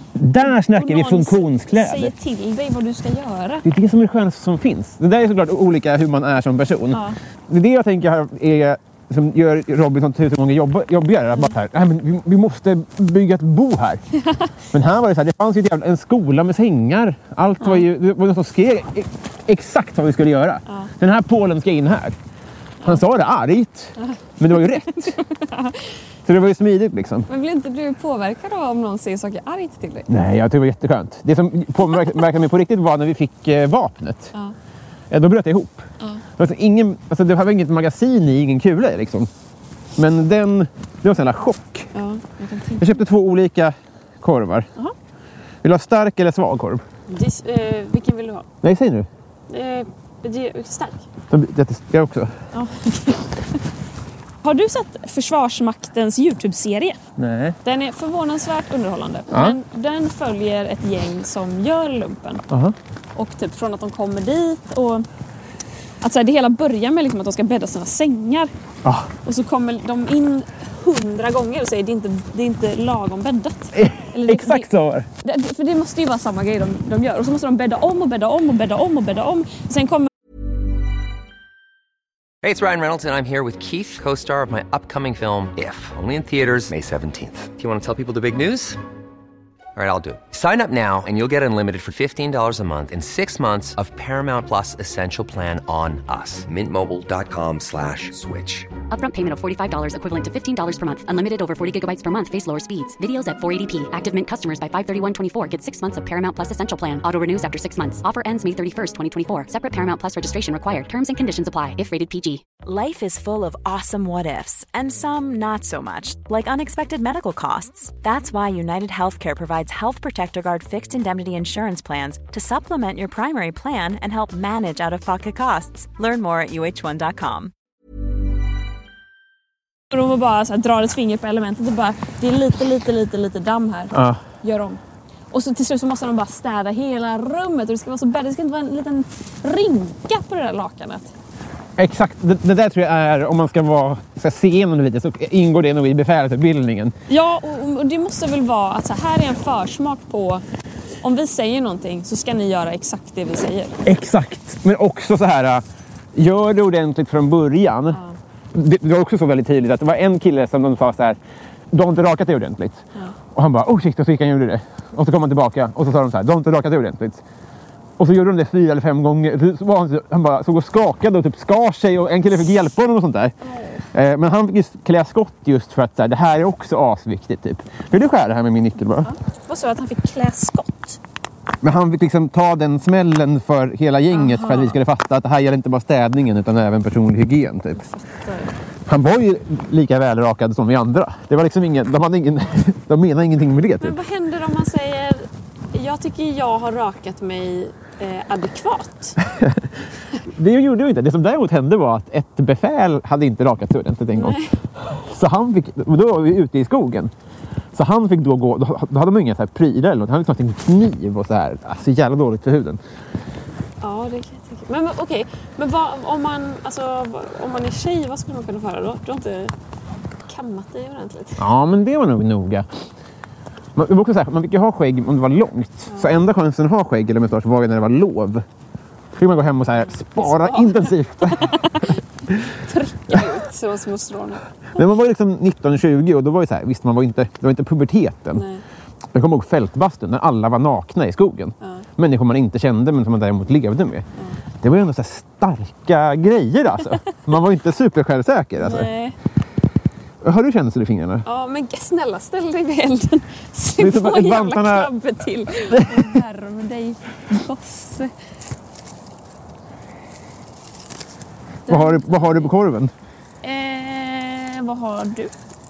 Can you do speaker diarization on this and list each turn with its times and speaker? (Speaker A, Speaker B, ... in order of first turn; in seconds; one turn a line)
Speaker A: 0.1-2.1
Speaker B: 0.4-3.6
Speaker A: 3.6-14.0
Speaker B: 6.9-7.2
Speaker A: 14.7-22.1
Speaker A: 22.8-25.1
Speaker B: 24.0-25.8
Speaker A: 26.2-27.3
Speaker B: 27.3-30.1
Speaker A: 30.1-34.3
Speaker A: 35.1-39.3
Speaker A: 40.0-41.9
Speaker B: 41.9-43.0
Speaker A: 42.8-44.7
Speaker A: 45.6-46.8
Speaker B: 47.1-48.5
Speaker A: 48.6-49.1
Speaker B: 49.5-51.0
Speaker A: 51.3-52.3
Speaker B: 52.5-53.3
Speaker B: 54.4-57.0
Speaker A: 57.2-57.6
Speaker B: 57.6-62.4
Speaker A: 59.3-59.6
Speaker A: 62.5-62.7
Speaker B: 63.1-65.0
Speaker B: 66.0-68.5
Speaker A: 68.8-69.1
Speaker B: 69.2-74.7
Speaker A: 73.7-75.1
Speaker B: 75.2-80.1
Speaker C: 82.4-88.8
Speaker C: 89.7-98.7
Speaker D: 98.9-112.5
Speaker E: 112.6-127.5
Speaker B: 129.9-134.8
Speaker A: 133.9-134.2
Speaker B: 135.3-141.1
Speaker A: 141.8-146.9
Speaker B: 147.1-150.4
Speaker B: 151.0-153.8
Speaker A: 153.8-155.6
Speaker A: 156.1-158.0
Speaker B: 157.9-158.2
Speaker A: 158.5-161.2
Speaker A: 161.7-162.8
Speaker A: 163.3-167.2
Speaker A: 168.0-173.3
Speaker B: 173.4-173.8
Speaker A: 173.9-179.1
Speaker B: 179.0-181.0
Speaker A: 181.6-187.8
Speaker B: 184.1-184.8
Speaker B: 187.7-188.5
Speaker A: 188.9-193.9
Speaker B: 193.8-199.2
Speaker A: 199.3-199.6
Speaker A: 200.3-207.1
Speaker B: 204.1-204.5
Speaker A: 207.7-212.8
Speaker B: 213.8-219.5
Speaker B: 220.2-221.4
Speaker A: 221.4-222.7
Speaker A: 223.8-228.4
Speaker A: 229.2-231.6
Speaker B: 229.8-231.9
Speaker B: 232.5-234.5
Speaker A: 234.8-238.4
Speaker B: 238.3-238.6
Speaker A: 239.1-244.0
Speaker B: 241.6-241.9
Speaker A: 244.6-248.9
Speaker B: 248.6-249.2
Speaker A: 250.2-251.2
Speaker B: 251.2-258.1
Speaker A: 253.8-254.9
Speaker A: 255.7-256.1
Speaker B: 261.6-262.5
Speaker A: 261.7-262.9
Speaker B: 263.4-265.3